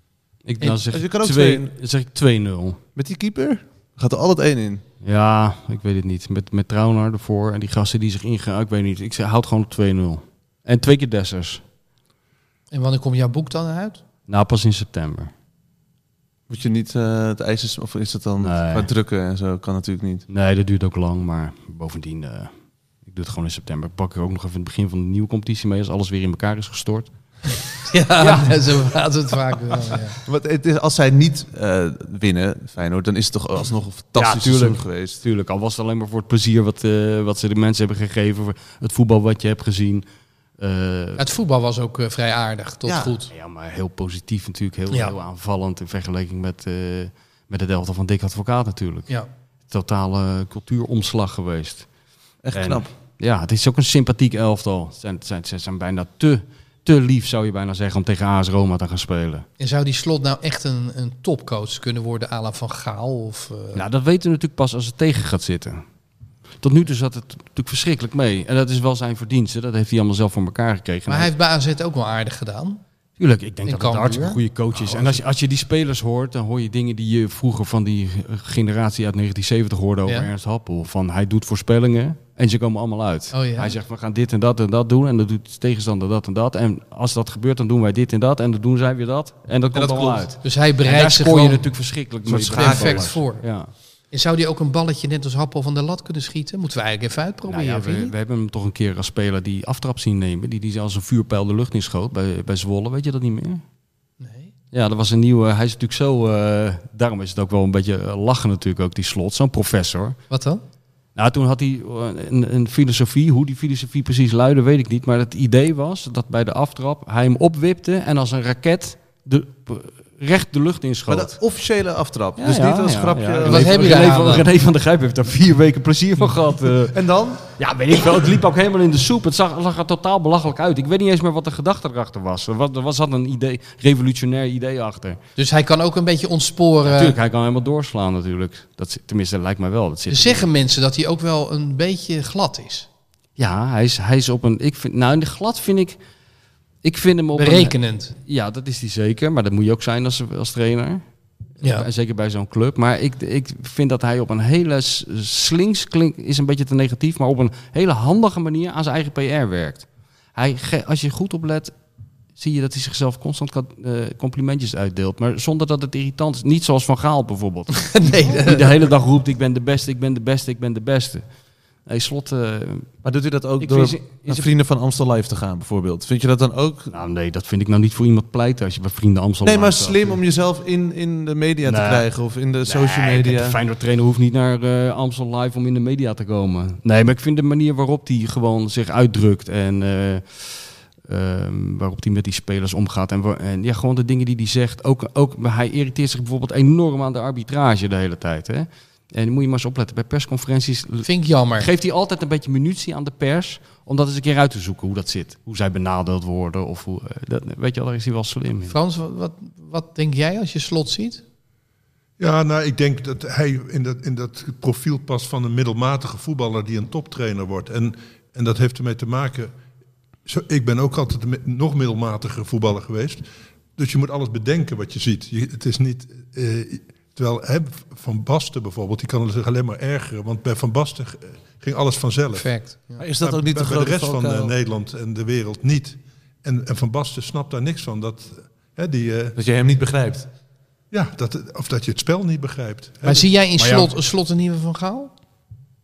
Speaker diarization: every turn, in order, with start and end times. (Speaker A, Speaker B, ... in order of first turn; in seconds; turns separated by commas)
Speaker A: 0.4-2.8, Speaker B: 0.9-1.7, Speaker B: 3.0-4.8, Speaker A: 5.0-11.6, Speaker C: 12.7-14.0, Speaker A: 14.3-15.3, Speaker B: 16.5-20.2, Speaker A: 18.4-18.9, Speaker A: 20.3-22.5, Speaker A: 23.0-27.1, Speaker C: 27.9-30.2, Speaker A: 28.2-28.6, Speaker B: 30.2-35.2, Speaker A: 34.1-40.0, Speaker A: 40.6-41.2, Speaker C: 41.2-43.3, Speaker B: 42.9-43.1, Speaker A: 43.3-49.1, Speaker A: 49.7-51.9, Speaker B: 52.4-52.9, Speaker A: 52.5-59.5, Speaker C: 59.6-63.8, Speaker A: 63.7-65.8, Speaker A: 66.6-71.3, Speaker C: 71.1-72.8, Speaker A: 73.2-93.7, Speaker C: 73.7-74.4, Speaker D: 74.8-75.2, Speaker C: 83.3-83.7, Speaker B: 89.7-90.2, Speaker C: 90.4-91.7, Speaker B: 92.2-93.1, Speaker C: 92.5-93.4, Speaker C: 94.1-98.1, Speaker A: 97.5-103.6, Speaker C: 104.2-104.5, Speaker A: 104.7-110.2, Speaker C: 110.3-110.6, Speaker A: 111.2-121.3, Speaker B: 121.1-124.5, Speaker A: 122.4-135.2, Speaker C: 123.4-124.5, Speaker B: 126.9-127.4, Speaker C: 135.4-137.2, Speaker A: 136.8-140.5, Speaker C: 140.1-142.9, Speaker A: 143.4-146.0, Speaker A: 146.8-151.0, Speaker C: 147.3-148.1, Speaker C: 151.6-151.9, Speaker A: 151.6-161.7, Speaker A: 162.3-171.2, Speaker C: 167.8-168.7, Speaker A: 171.8-172.9, Speaker B: 173.0-176.9, Speaker A: 173.6-174.5, Speaker A: 176.9-180.2, Speaker B: 179.4-183.6, Speaker A: 181.6-182.1, Speaker A: 182.6-208.7, Speaker C: 201.0-201.7, Speaker C: 208.7-211.2, Speaker D: 212.2-219.5, Speaker D: 220.2-223.2, Speaker D: 223.8-232.5, Speaker C: 232.3-233.0, Speaker B: 233.0-234.5, Speaker D: 233.2-239.4, Speaker B: 239.3-240.3, Speaker D: 240.9-243.3, Speaker C: 243.0-245.1, Speaker A: 243.6-243.9